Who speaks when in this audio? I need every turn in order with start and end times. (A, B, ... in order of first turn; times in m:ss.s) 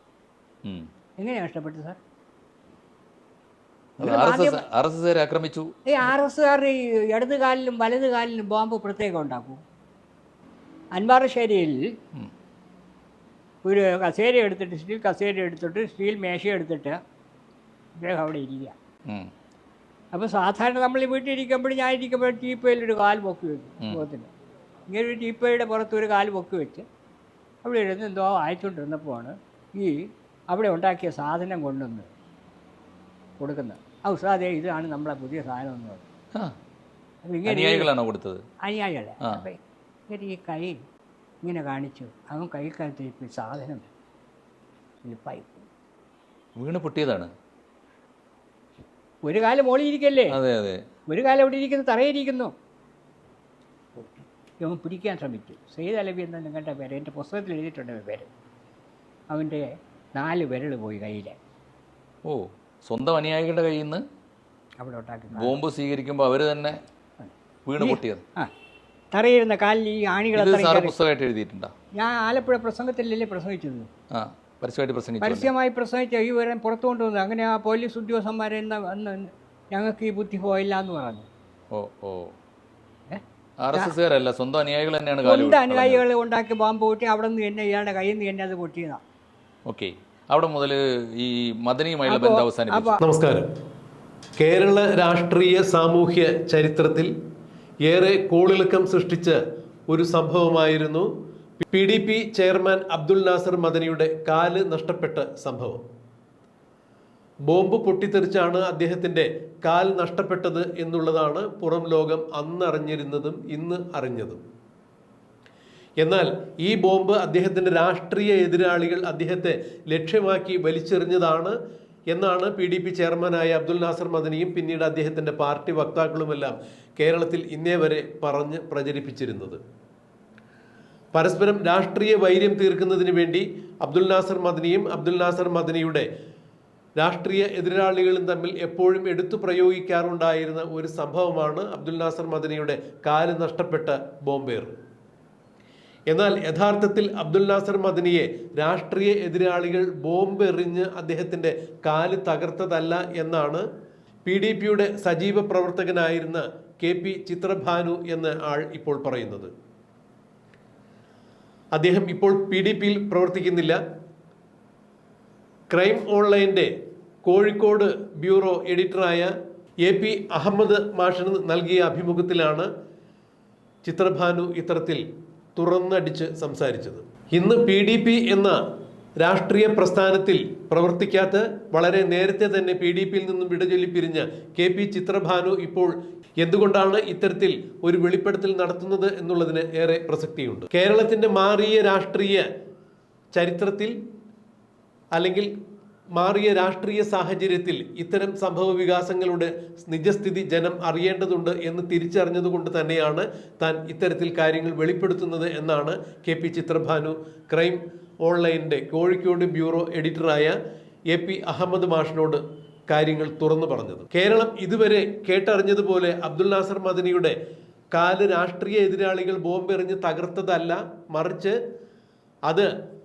0:01.2-0:02.0 A
0:04.0-0:05.7 B
0:04.0-0:04.6 A
0:05.9-0:09.6 A
0:11.0-0:11.9 A
0:13.6-0:17.0 A
0:18.0-0:18.8 A
0:20.1-0:24.3 A
0:24.9-0:26.9 A
0:27.6-0:32.1 A
0:33.4-0:36.1 A
0:37.2-0:37.9 A
0:37.5-0:38.4 B
0:38.6-0:39.6 A
0:40.1-0:40.8 A
0:41.4-0:43.9 A
0:45.0-0:45.7 A
0:46.6-0:47.3 B
0:49.3-0:50.4 A
0:50.3-0:50.8 B
0:51.1-0:52.5 A
0:54.6-0:58.3 A
0:59.3-1:01.4 A
1:02.2-1:04.0 B
1:04.8-1:05.6 A
1:05.4-1:06.8 B
1:07.2-1:08.5 A
1:07.7-1:08.2 B
1:09.1-1:11.0 A
1:10.4-1:11.7 B
1:12.0-1:13.9 A
1:14.1-1:15.5 B
1:15.2-1:21.3 A
1:21.7-1:22.4 B
1:23.6-1:26.0 B
1:25.2-1:29.0 A
1:29.7-1:33.0 B
1:32.1-1:33.0 A
1:33.0-1:33.5 C
1:34.4-1:37.1 C
1:37.8-1:41.1 C
1:41.6-1:45.8 C
1:47.5-1:54.4 C
1:56.0-2:01.6 C
2:02.1-2:09.6 C
2:11.1-2:16.1 C
2:17.0-2:24.8 C
2:26.1-2:33.7 C
2:34.2-2:39.5 C
2:41.7-2:43.8 C
2:45.7-2:46.7 C
2:47.2-2:49.3 C
2:49.8-2:52.7 C
2:53.8-2:55.0 C
2:55.6-2:58.6 C
2:59.2-3:12.5 C
3:13.3-3:14.0 C
3:15.2-3:15.5 C
3:16.2-3:30.6 C
3:31.1-3:37.4 C
3:37.9-3:41.6 C